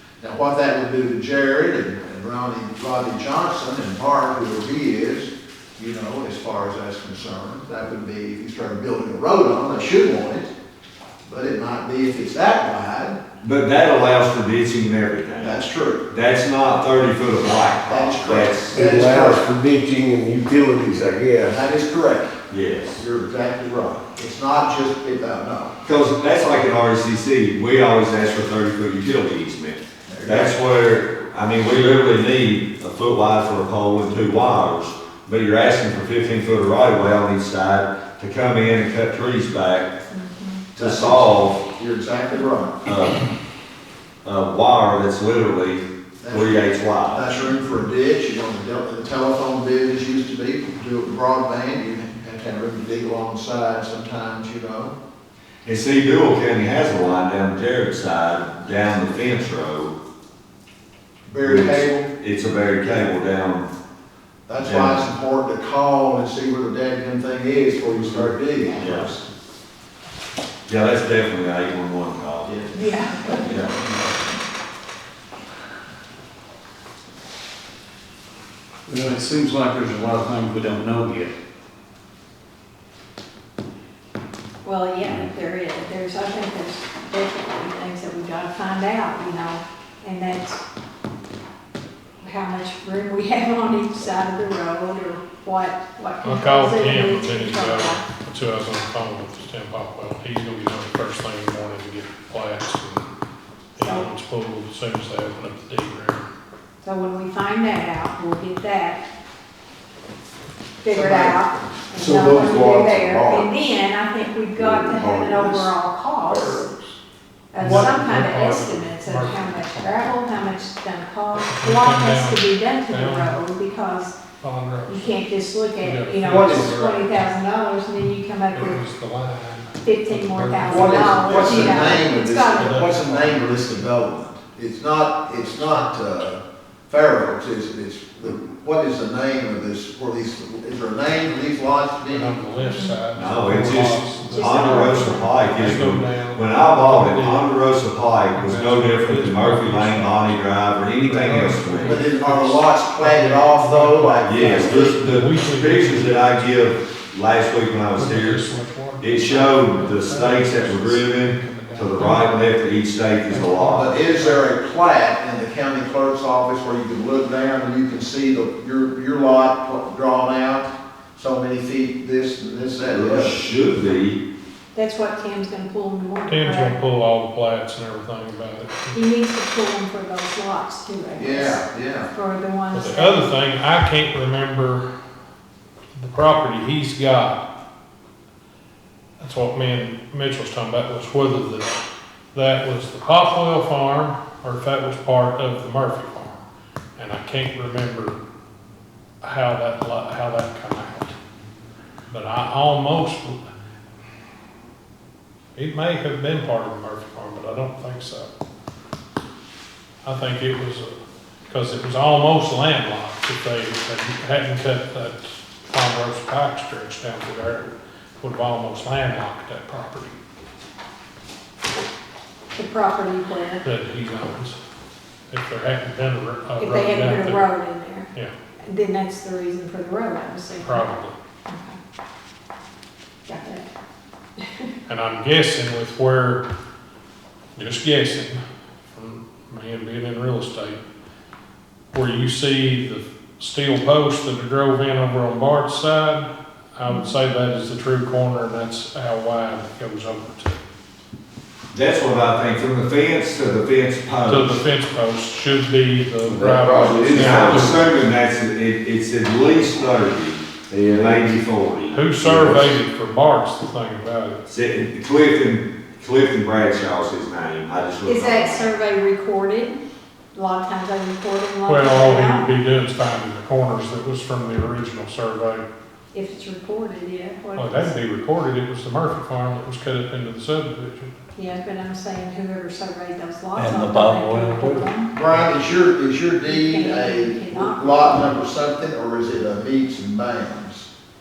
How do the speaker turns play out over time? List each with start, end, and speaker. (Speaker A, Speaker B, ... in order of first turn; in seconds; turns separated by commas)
Speaker A: 0.2-10.5, Speaker A: 11.3-13.2, Speaker B: 13.4-18.8, Speaker A: 15.4-16.1, Speaker A: 17.9-19.5, Speaker C: 18.7-21.6, Speaker A: 21.4-22.4, Speaker B: 22.5-23.0, Speaker A: 23.0-25.8, Speaker B: 25.8-39.9, Speaker A: 30.1-30.6, Speaker D: 40.1-40.6, Speaker A: 40.8-42.9, Speaker B: 40.8-41.6, Speaker B: 42.9-43.3, Speaker B: 44.2-47.3, Speaker A: 46.2-55.0, Speaker B: 55.6-60.0, Speaker A: 61.3-62.1, Speaker B: 61.4-63.7, Speaker A: 64.5-69.2, Speaker B: 64.6-65.0, Speaker B: 68.8-69.1, Speaker B: 70.7-72.6, Speaker A: 72.5-74.0, Speaker D: 72.7-73.7, Speaker B: 73.5-73.7, Speaker E: 78.9-81.3, Speaker D: 84.6-90.6, Speaker D: 92.2-98.0, Speaker F: 96.2-103.2, Speaker D: 103.8-104.1, Speaker F: 103.8-106.3, Speaker D: 106.8-109.0, Speaker D: 110.8-116.7, Speaker A: 110.9-112.8, Speaker C: 112.0-113.5, Speaker C: 114.6-115.7, Speaker D: 117.5-124.2, Speaker F: 117.6-120.0, Speaker F: 121.5-123.3, Speaker F: 124.4-125.2, Speaker D: 124.9-128.8, Speaker F: 125.8-127.1, Speaker A: 126.3-126.8, Speaker F: 128.5-133.8, Speaker D: 129.8-132.8, Speaker A: 130.6-142.4, Speaker F: 142.1-147.5, Speaker D: 142.6-143.0, Speaker B: 143.1-152.0, Speaker D: 144.2-145.4, Speaker F: 148.3-150.4, Speaker F: 150.9-156.4, Speaker A: 151.8-154.9, Speaker B: 154.2-158.5, Speaker F: 158.0-162.5, Speaker B: 159.0-164.0, Speaker F: 163.3-164.4, Speaker A: 163.7-173.4, Speaker B: 172.8-174.2, Speaker D: 174.7-176.8, Speaker F: 176.3-179.0, Speaker D: 178.9-183.3, Speaker A: 181.2-182.1, Speaker F: 182.7-184.9, Speaker F: 185.9-187.5, Speaker F: 189.2-191.8, Speaker F: 192.3-196.4, Speaker F: 197.0-198.2, Speaker F: 199.2-201.2, Speaker F: 202.1-203.4, Speaker F: 205.6-208.3, Speaker F: 210.0-210.9, Speaker F: 211.5-220.2, Speaker D: 222.6-223.7, Speaker F: 223.6-224.6, Speaker F: 225.3-227.5, Speaker D: 226.6-228.1, Speaker D: 228.6-230.9, Speaker F: 230.6-231.2, Speaker D: 231.5-231.8, Speaker D: 233.3-233.7, Speaker D: 234.4-234.7, Speaker F: 234.9-236.4, Speaker F: 237.6-238.4, Speaker F: 238.9-240.8, Speaker F: 241.9-250.6, Speaker D: 246.8-247.1, Speaker B: 251.7-254.6, Speaker F: 254.3-257.9, Speaker C: 256.3-257.7, Speaker B: 256.9-262.6, Speaker C: 260.7-261.2, Speaker F: 261.9-264.4, Speaker C: 262.3-262.7, Speaker B: 264.5-268.7, Speaker D: 268.1-269.8, Speaker D: 270.3-272.5, Speaker F: 271.7-275.7, Speaker D: 276.1-278.0, Speaker F: 277.6-281.1, Speaker D: 281.4-285.1, Speaker E: 283.6-285.0, Speaker A: 285.1-290.9, Speaker D: 286.5-288.4